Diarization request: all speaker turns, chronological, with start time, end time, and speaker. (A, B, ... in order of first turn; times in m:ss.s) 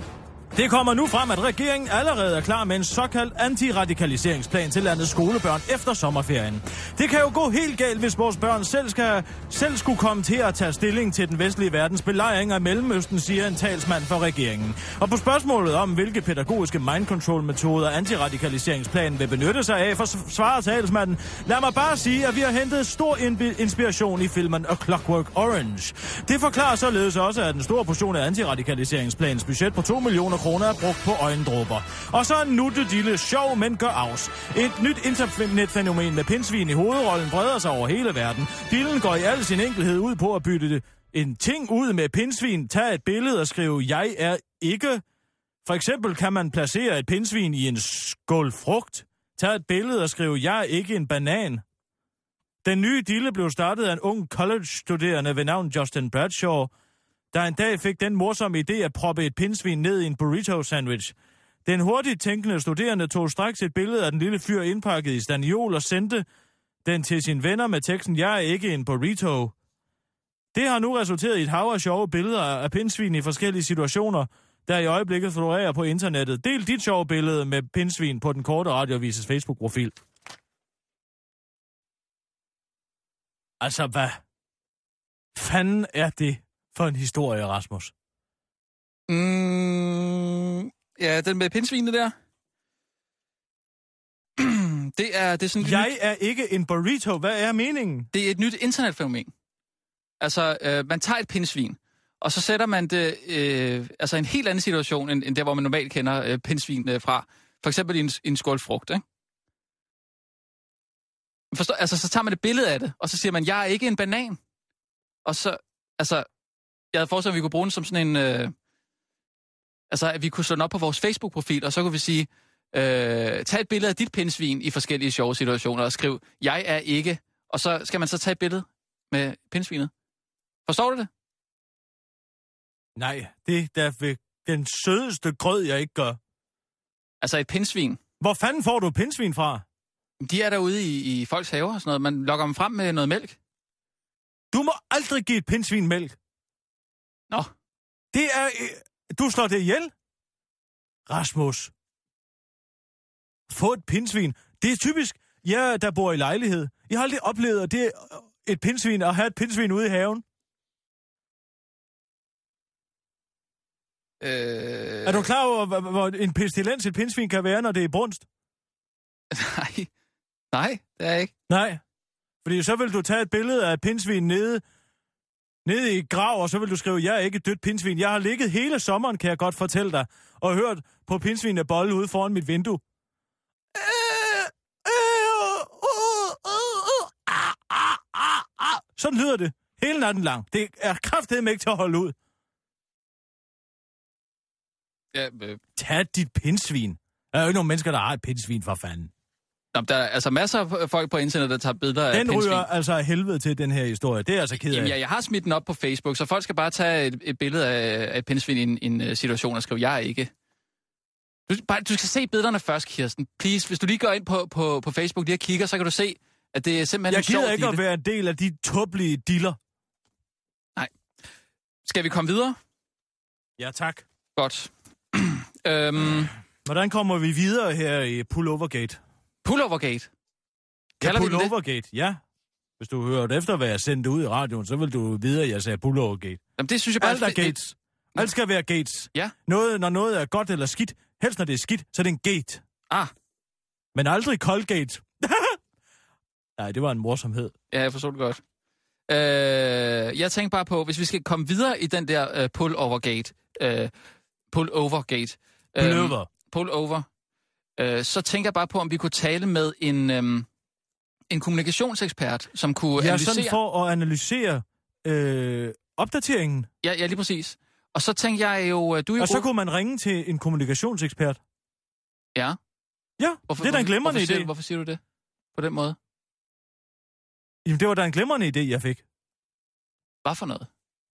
0:00.5-0:45.0 A
0:45.6-0:51.6 A
0:52.6-0:56.7 A
0:57.3-1:06.2 A
1:06.8-1:09.5 A
1:10.5-1:19.9 A
1:23.6-1:24.2 A
1:25.3-1:27.9 A
1:29.1-1:32.1 B
1:34.4-1:35.9 B
1:35.6-1:38.1 A
1:38.1-1:39.3 B
1:40.2-1:49.0 B
1:51.5-1:54.4 B
1:55.2-1:56.3 B
1:56.9-1:58.5 B
1:59.9-2:09.9 B
2:10.6-2:11.1 B
2:13.0-2:16.2 A
2:17.2-2:18.0 B
2:18.2-2:19.6 A
2:20.2-2:23.4 B
2:24.5-2:26.2 A
2:28.1-2:29.9 A
2:31.1-2:31.7 A
2:33.5-2:40.2 A
2:44.2-2:45.3 B
2:45.0-2:48.2 A
2:49.3-2:49.9 B
2:50.5-2:51.3 B
2:51.5-2:51.8 A
2:52.4-2:54.6 A
2:55.6-3:02.8 A
3:03.7-3:12.1 A
3:15.1-3:15.6 B
3:15.8-3:19.1 A
3:19.7-3:22.7 B
3:22.1-3:24.9 A
3:24.6-3:30.3 B
3:31.5-3:37.8 B
3:37.1-3:39.6 A
3:41.8-3:42.6 B
3:43.6-3:44.0 A
3:44.4-3:46.3 B
3:46.6-3:49.0 A
3:49.4-3:50.1 B
3:51.0-3:51.5 B
3:51.0-3:52.2 A
3:52.8-3:56.4 A
3:56.6-3:57.6 B
3:57.0-4:02.6 A
4:03.9-4:05.6 A
4:06.6-4:07.5 A
4:07.7-4:08.4 B
4:09.1-4:13.9 B
4:14.5-4:17.0 B
4:15.8-4:16.3 A
4:17.8-4:20.5 B
4:21.3-4:23.6 B
4:23.0-4:26.7 A
4:26.8-4:29.5 B
4:29.2-4:31.4 A
4:33.2-4:34.5 A
4:33.5-4:35.0 B
4:35.5-4:36.0 B
4:37.6-4:39.0 A
4:40.2-4:40.7 B